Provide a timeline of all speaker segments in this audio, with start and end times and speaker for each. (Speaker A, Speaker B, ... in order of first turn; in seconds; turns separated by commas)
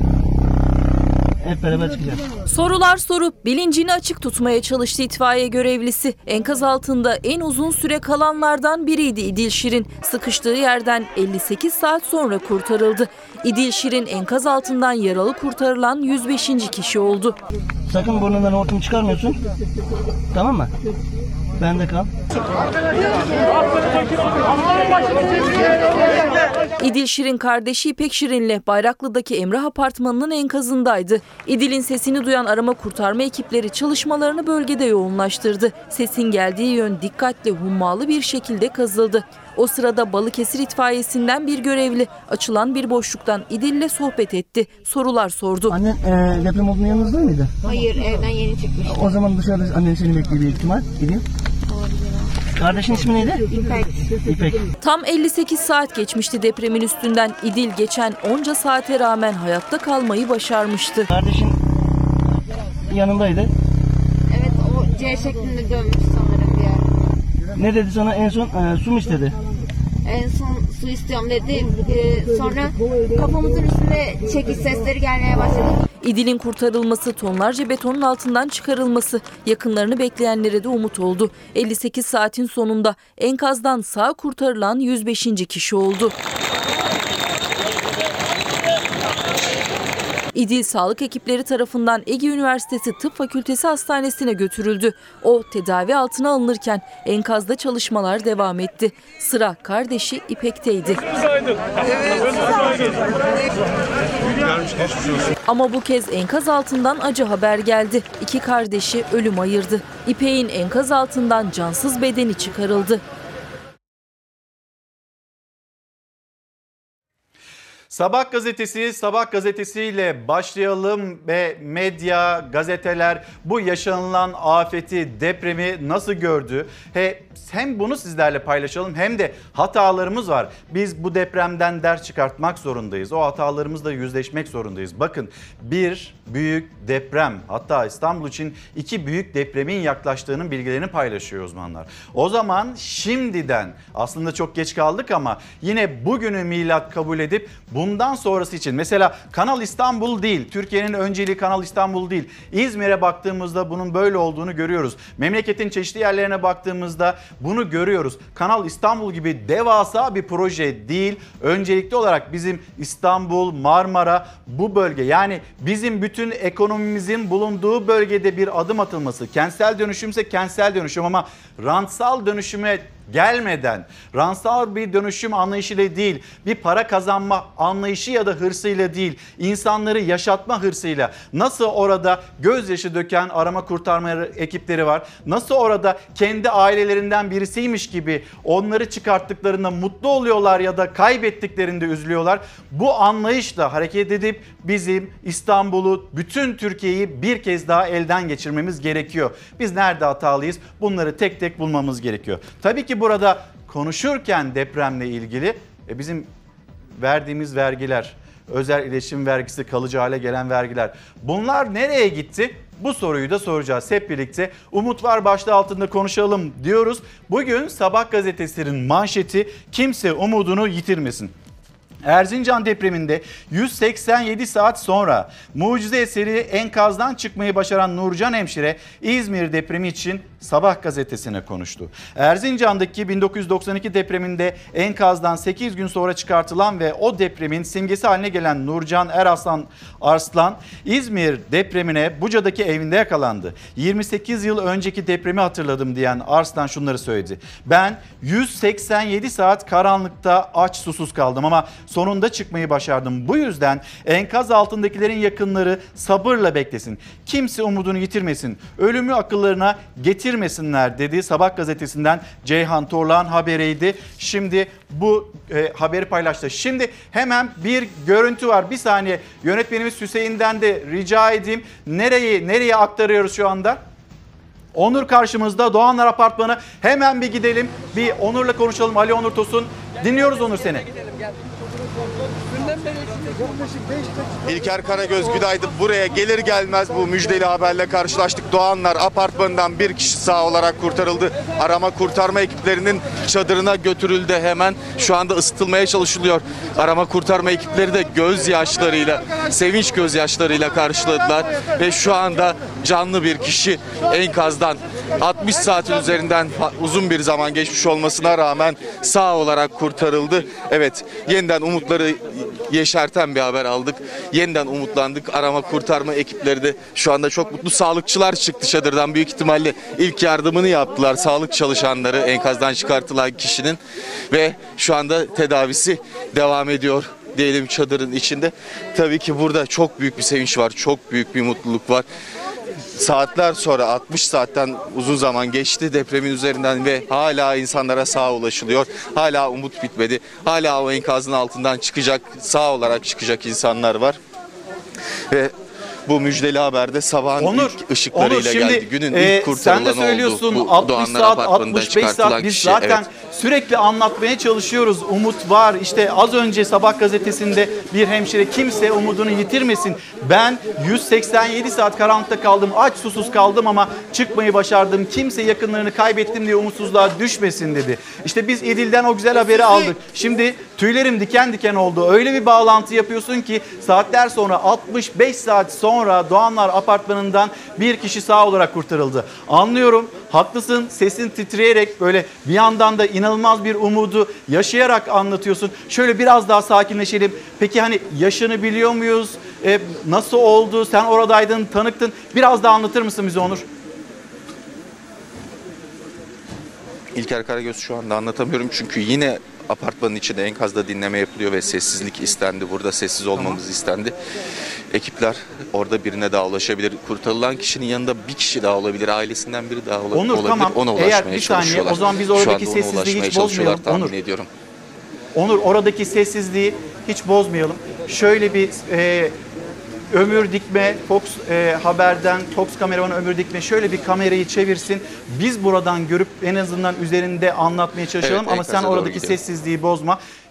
Speaker A: 1.4-2.2, Speaker B: 2.5-17.4, Speaker A: 17.9-19.4, Speaker A: 20.3-20.7, Speaker A: 21.6-22.1, Speaker B: 26.8-45.8, Speaker A: 45.7-47.5, Speaker C: 47.6-49.0, Speaker A: 48.8-51.2, Speaker C: 51.7-52.4, Speaker A: 52.5-53.5, Speaker C: 53.5-53.9, Speaker A: 54.2-54.6, Speaker B: 54.8-61.1, Speaker A: 61.1-61.6, Speaker A: 62.9-63.5, Speaker C: 64.3-66.9, Speaker A: 67.6-69.4, Speaker C: 70.0-75.9, Speaker B: 76.0-86.1, Speaker B: 90.3-101.1, Speaker B: 105.5-113.0, Speaker D: 117.9-206.3, Speaker D: 207.0-221.3, Speaker D: 222.0-273.8, Speaker D: 274.7-280.9, Speaker E: 284.4-323.8, Speaker E: 324.3-332.1, Speaker E: 333.0-344.2, Speaker E: 346.1-353.1, Speaker D: 347.4-393.6, Speaker E: 397.1-404.1, Speaker E: 404.9-414.5, Speaker D: 410.1-414.1, Speaker D: 415.3-419.4, Speaker D: 420.1-430.2, Speaker E: 428.2-429.4